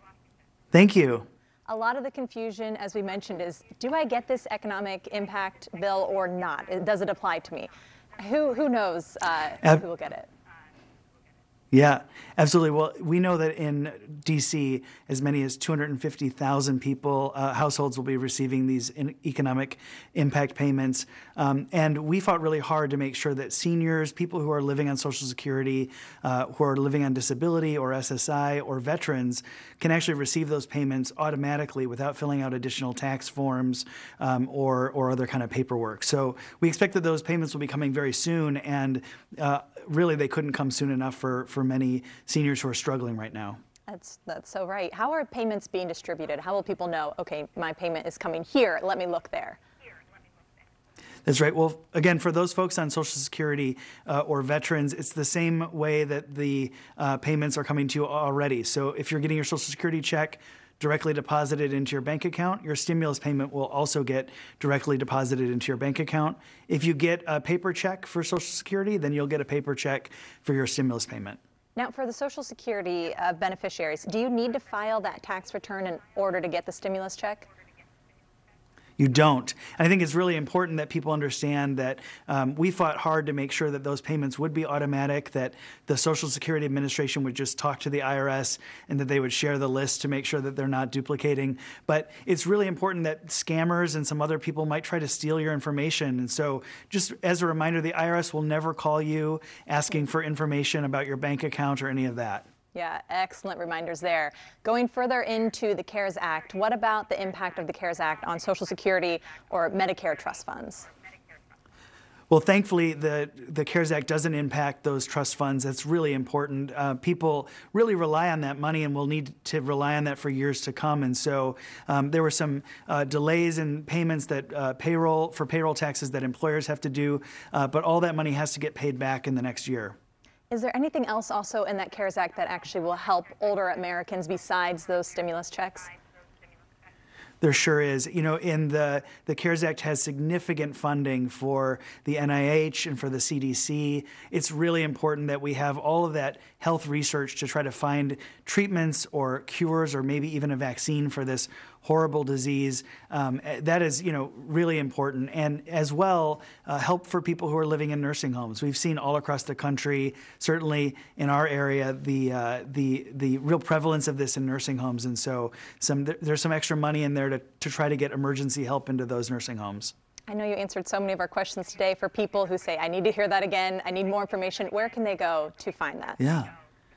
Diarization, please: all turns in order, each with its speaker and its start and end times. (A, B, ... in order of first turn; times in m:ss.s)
0:00.7-0:01.3 A
0:01.7-0:10.3 B
0:11.7-0:43.6 A
0:43.9-0:49.6 B
0:51.2-1:11.4 A
1:11.8-1:17.5 B
1:19.0-1:42.5 A
1:42.7-1:50.9 B
1:52.3-2:10.0 A
2:10.5-2:15.9 B
2:17.4-2:49.9 A
2:50.3-2:56.2 B
2:56.2-2:56.5 A